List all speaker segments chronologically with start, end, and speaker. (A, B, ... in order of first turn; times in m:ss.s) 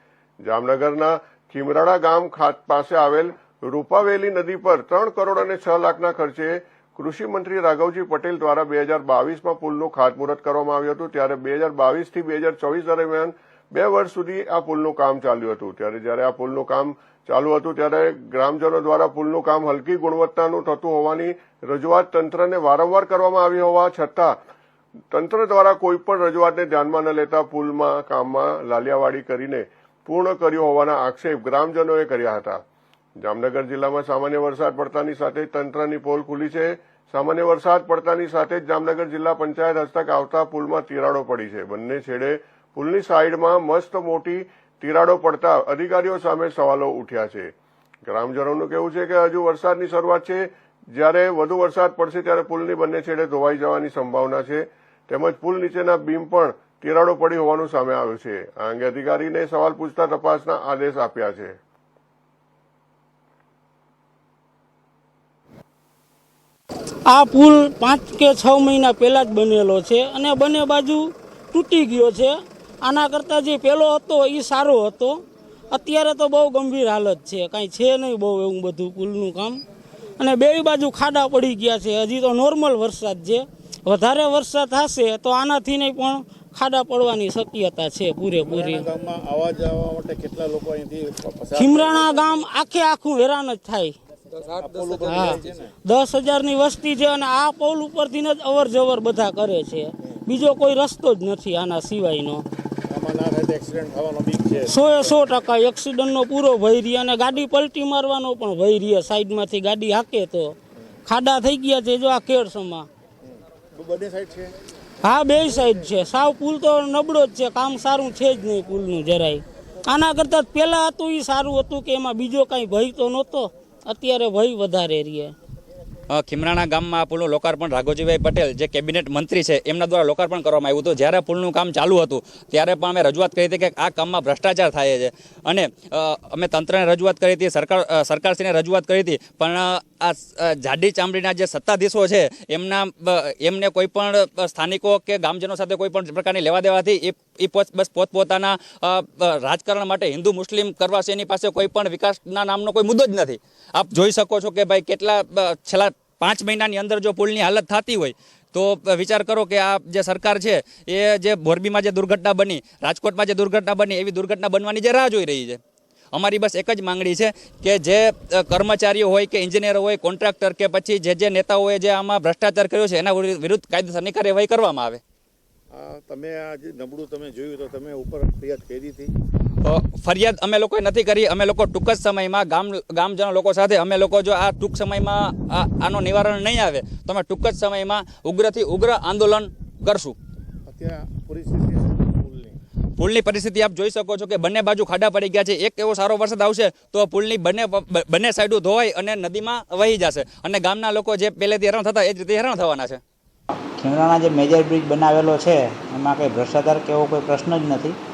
0:00.4-0:24.4 A
0:25.1-0:32.6 A
0:33.2-0:47.5 A
0:48.1-1:01.6 A
1:07.1-1:15.2 B
1:15.7-1:19.6 B
1:20.2-1:28.9 B
1:28.4-1:32.3 C
1:31.6-1:34.0 B
1:34.5-1:35.7 C
1:35.0-1:42.4 B
1:42.9-1:45.1 C
1:44.6-1:50.6 B
1:51.1-1:52.9 B
1:53.2-1:54.5 C
1:55.0-2:05.3 B
2:06.1-2:45.6 D
2:46.1-2:55.0 D
2:55.7-2:59.1 C
2:59.6-3:10.2 D
3:10.7-3:12.6 C
3:13.0-3:23.0 D
3:23.8-3:28.0 E